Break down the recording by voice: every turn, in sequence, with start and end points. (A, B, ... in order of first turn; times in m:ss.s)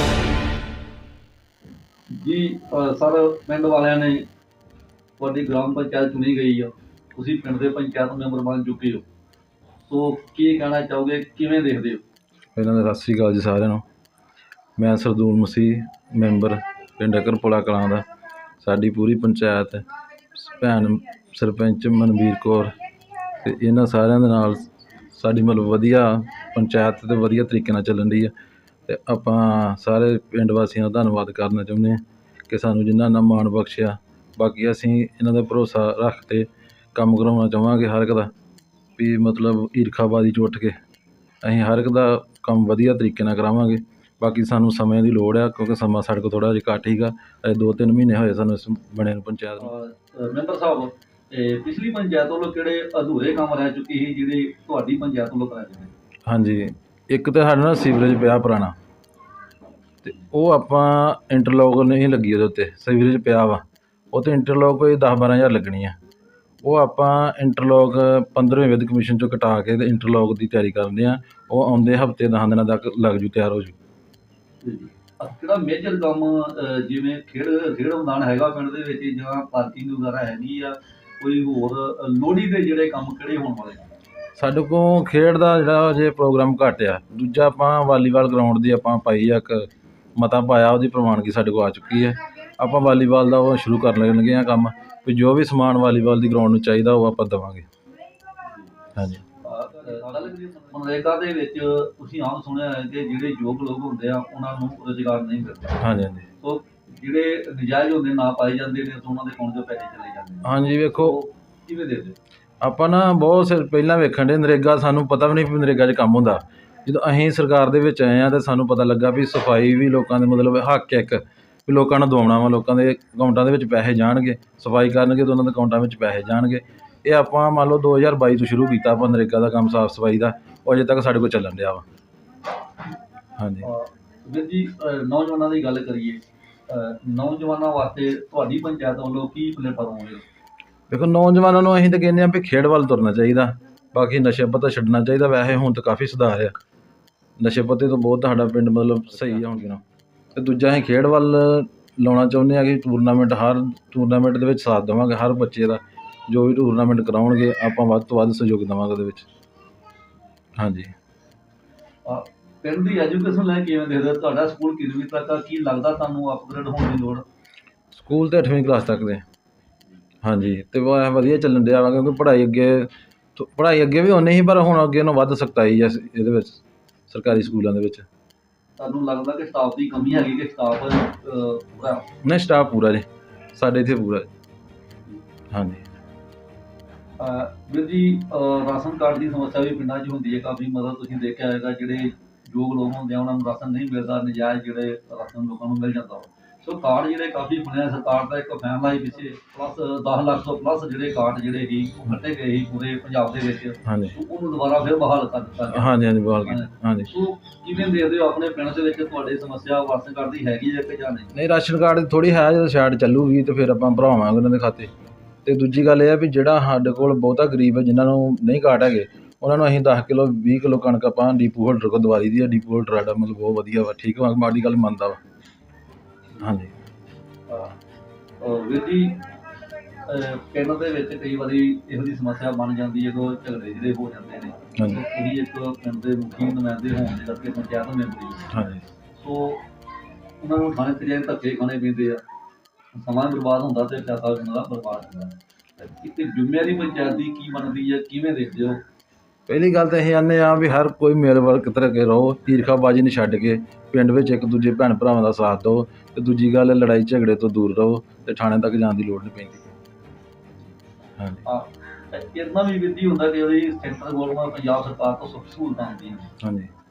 0:02.1-0:04.2 A
0:05.2-0:09.0 A
0:09.8-0:12.0 A
0:12.6-0:13.8 B
0:14.8-0:18.0 B
0:18.6-0:22.8 B
0:23.4-0:28.3 B
0:28.9-0:38.3 B
0:39.0-0:40.8 B
0:41.4-0:49.7 B
0:49.6-0:55.9 A
0:56.3-0:58.7 B
1:00.0-1:06.0 B
1:06.6-1:13.7 B
1:14.6-1:23.9 A
1:24.4-1:37.6 B
1:38.5-1:38.7 A
1:39.0-1:39.2 B
1:39.4-1:45.8 A
1:45.8-1:46.3 B
1:46.4-1:52.2 A
1:50.4-1:51.2 B
1:52.6-2:11.8 B
2:13.4-2:13.7 B
2:13.6-2:20.2 A
2:20.9-2:26.6 B
2:27.4-2:29.8 B
2:30.3-2:39.3 B
2:40.6-2:40.9 B
2:42.0-2:47.2 A
2:47.9-2:49.2 B
2:50.2-2:58.0 B
2:58.8-3:02.1 A
3:02.2-3:04.3 B
3:05.5-3:05.8 B
3:07.2-3:31.3 A
3:23.8-3:24.2 B
3:25.7-3:27.1 B
3:31.3-3:34.9 B
3:35.4-3:45.2 B
3:46.4-3:46.7 B
3:48.4-3:49.2 A
3:50.0-3:58.5 A
3:58.5-3:58.8 B
3:59.2-3:59.6 A
4:00.4-4:02.2 A
4:02.9-4:08.8 A
4:09.5-4:19.7 B
4:21.2-4:21.4 B
4:21.4-4:26.3 A
4:26.4-4:26.7 B